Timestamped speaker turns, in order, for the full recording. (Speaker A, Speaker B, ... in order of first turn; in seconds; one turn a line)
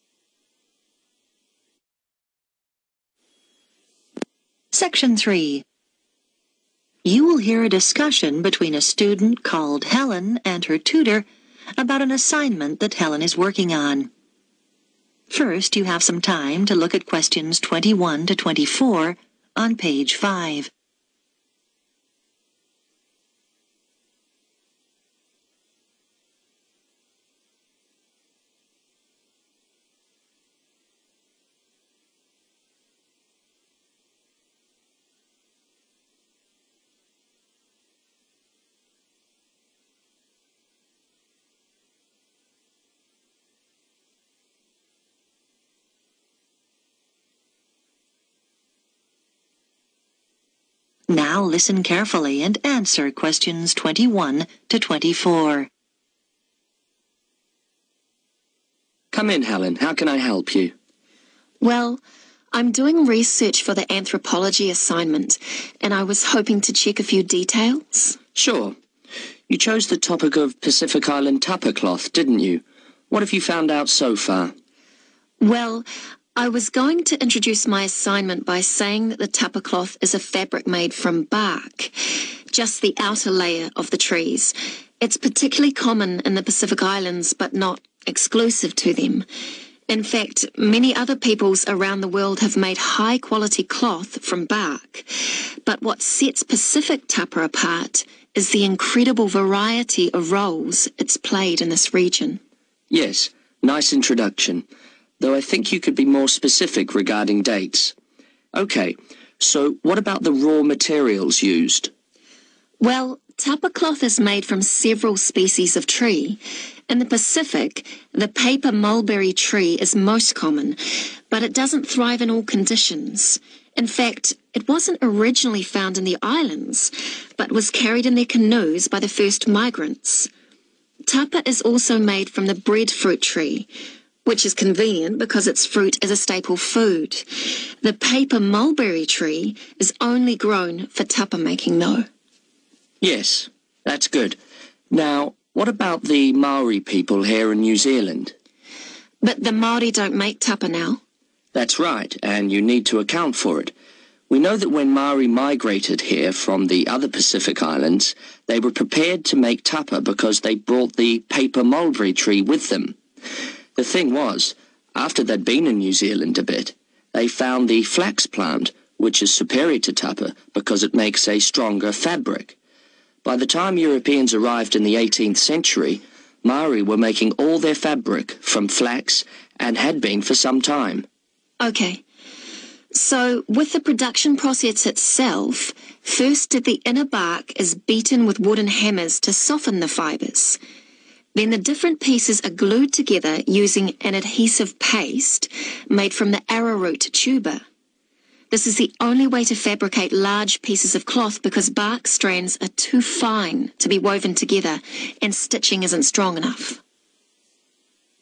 Speaker A: 4.7-5.6
Speaker A: 7.0-11.3
Speaker A: 11.8-14.1
Speaker A: 15.3-20.7
Speaker A: 51.1-55.7
Speaker B: 59.1-60.7
Speaker C: 61.6-62.0
Speaker C: 62.5-68.2
Speaker B: 68.3-68.8
Speaker B: 69.5-74.5
Speaker C: 75.4-89.3
Speaker C: 89.9-102.4
Speaker B: 102.9-104.7
Speaker B: 105.2-107.9
Speaker B: 108.5-111.9
Speaker C: 112.8-130.3
Speaker C: 131.1-133.7
Speaker C: 134.2-142.1
Speaker B: 143.0-144.4
Speaker B: 144.9-148.3
Speaker C: 149.2-151.0
Speaker B: 151.5-153.7
Speaker B: 154.3-163.0
Speaker B: 163.8-172.6
Speaker B: 173.2-181.1
Speaker C: 181.6-182.0
Speaker C: 182.9-190.6
Speaker C: 191.3-197.6
Speaker C: 198.5-206.8